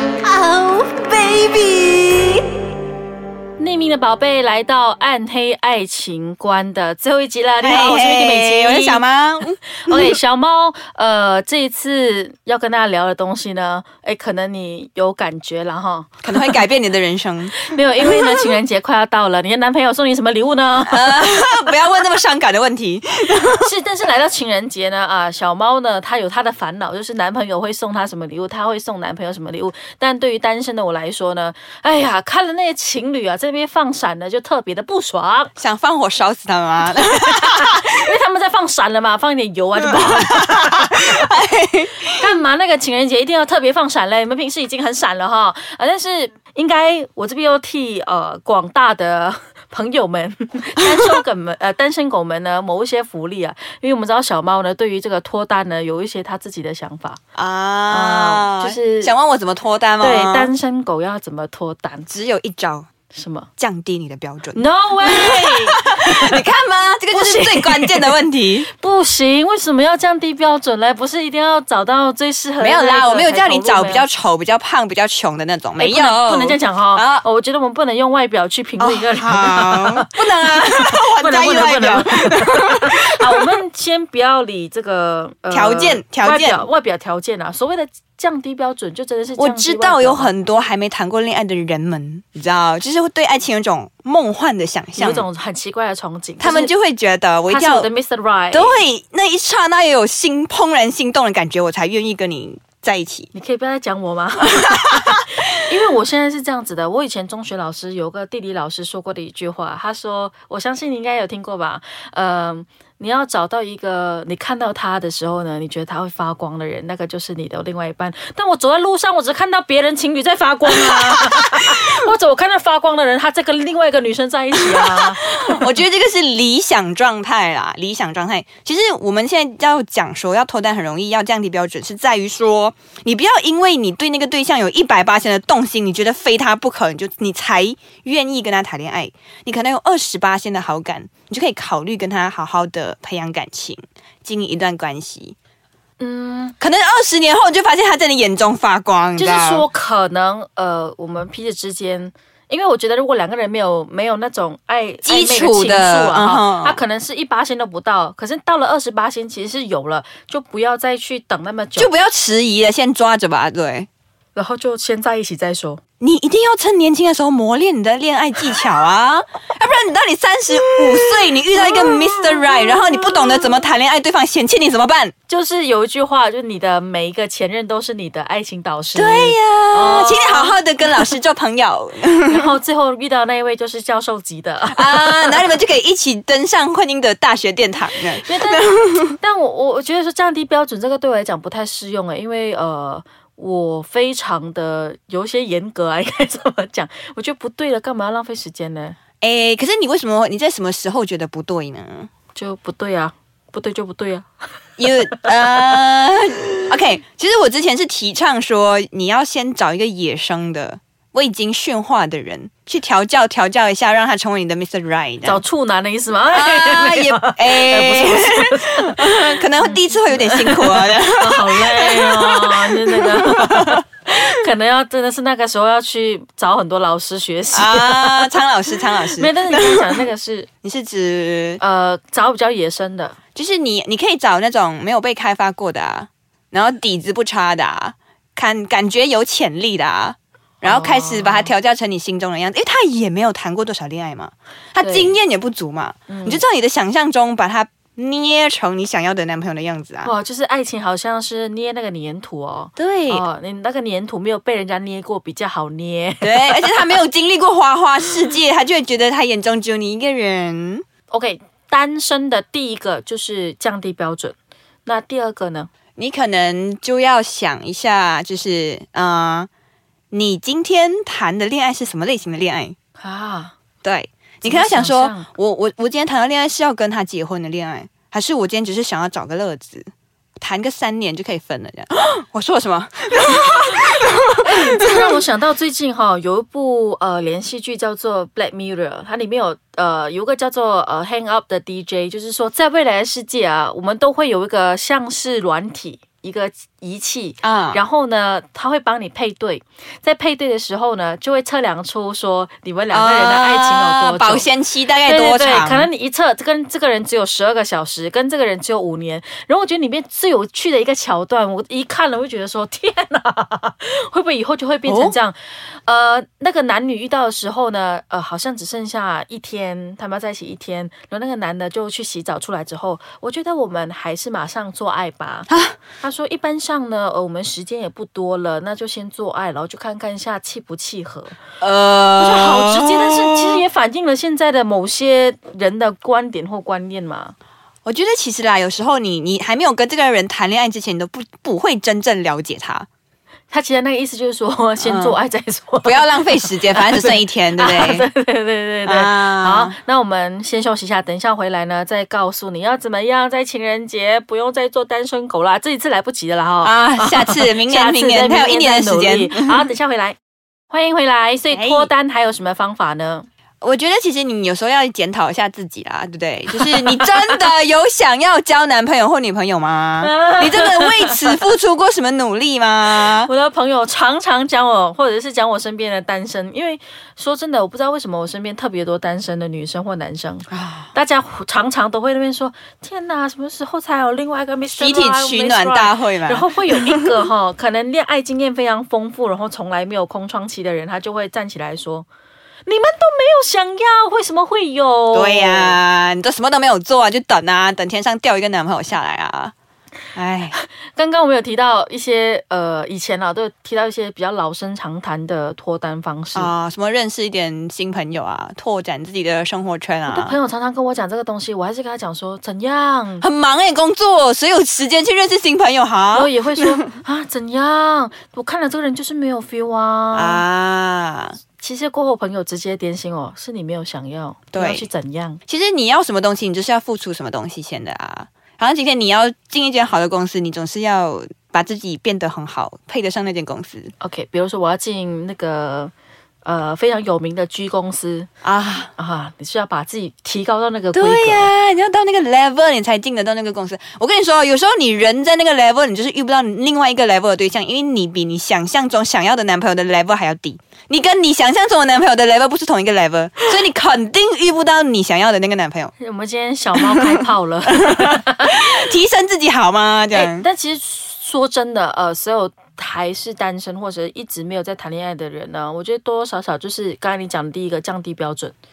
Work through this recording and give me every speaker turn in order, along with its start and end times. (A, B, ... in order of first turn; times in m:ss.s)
0:00.2-0:02.4 A
0:03.6-0:09.0 B
0:07.6-0:10.2 A
0:09.8-0:16.6 B
0:16.2-0:18.5 A
0:17.6-0:21.5 B
0:20.9-0:23.7 A
0:23.6-0:35.5 B
0:35.6-0:38.0 A
0:36.9-0:41.1 B
0:39.8-0:42.4 A
0:42.2-0:57.2 B
0:50.8-0:51.2 A
0:57.4-1:00.5 A
0:57.9-0:59.2 B
1:00.0-1:02.1 B
1:02.1-1:02.9 A
1:03.1-1:03.5 B
1:03.6-1:08.7 A
1:04.6-1:06.4 B
1:07.1-1:14.1 B
1:12.6-1:17.2 A
1:15.8-1:30.3 B
1:18.8-1:23.4 A
1:25.5-1:26.7 A
1:29.4-1:35.3 A
1:35.0-1:36.7 B
1:36.4-1:37.9 A
1:37.5-1:38.8 B
1:38.5-1:43.3 A
1:43.3-2:05.8 B
1:44.5-1:45.3 A
2:00.9-2:01.9 A
2:04.6-2:25.4 A
2:26.0-2:26.6 B
2:26.6-2:29.7 A
2:29.2-2:41.9 B
2:35.0-2:36.8 A
2:41.8-2:43.9 A
2:44.4-2:45.8 B
2:46.0-2:55.1 A
2:51.5-2:53.5 B
2:55.3-3:00.6 B
2:59.0-3:02.5 A
3:02.2-3:05.5 B
3:04.7-3:09.2 A
3:08.2-3:19.0 B
3:19.2-3:22.1 A
3:22.4-3:24.3 B
3:24.8-3:35.4 A
3:35.2-3:48.4 B
3:36.3-3:43.8 A
3:47.5-3:50.0 A
3:49.1-3:50.5 B
3:50.6-3:51.6 A
3:51.6-3:53.2 B
3:53.4-4:10.1 A
4:00.6-4:01.5 B
4:04.8-4:05.1 B
4:06.1-4:06.4 B
4:10.0-4:17.0 B
4:12.8-4:13.2 A
4:16.2-4:20.8 A
4:21.1-4:25.7 B
4:26.0-4:29.5 A
4:30.1-4:32.8 A
4:33.0-4:33.6 B
4:33.8-4:45.2 A
4:34.4-4:35.3 B
4:43.4-4:43.7 B
4:44.4-5:04.5 B
4:57.4-4:57.8 A
5:02.9-5:05.9 A
5:05.0-5:25.5 B
5:14.9-5:15.2 A
5:25.5-5:25.8 A
5:26.0-5:31.4 B
5:31.6-5:33.6 A
5:32.2-5:37.4 B
5:37.8-5:42.9 A
5:43.5-6:00.2 B
5:44.8-5:45.2 A
5:45.8-5:48.1 A
5:48.9-5:49.8 A
5:56.6-5:59.7 A
6:00.7-6:03.3 B
6:01.5-6:01.9 A
6:03.6-6:13.3 A
6:06.6-6:07.3 B
6:10.0-6:11.4 B
6:12.9-6:32.1 B
6:20.5-6:20.9 A
6:24.8-6:27.2 A
6:32.6-6:35.8 B
6:35.1-6:39.5 A
6:40.2-6:40.6 A
6:40.6-6:46.5 B
6:46.4-6:50.4 A
6:50.1-6:53.3 B
6:53.2-6:56.9 A
6:56.1-7:00.4 B
7:00.1-7:01.4 A
7:01.6-7:05.4 B
7:04.5-7:04.9 A
7:05.5-7:13.9 A
7:14.0-7:15.9 B
7:16.4-7:18.3 B
7:18.4-7:18.9 A
7:19.0-7:21.5 B
7:20.9-7:35.9 A
7:36.0-7:38.6 B
7:36.8-7:40.5 A
7:40.1-7:48.5 B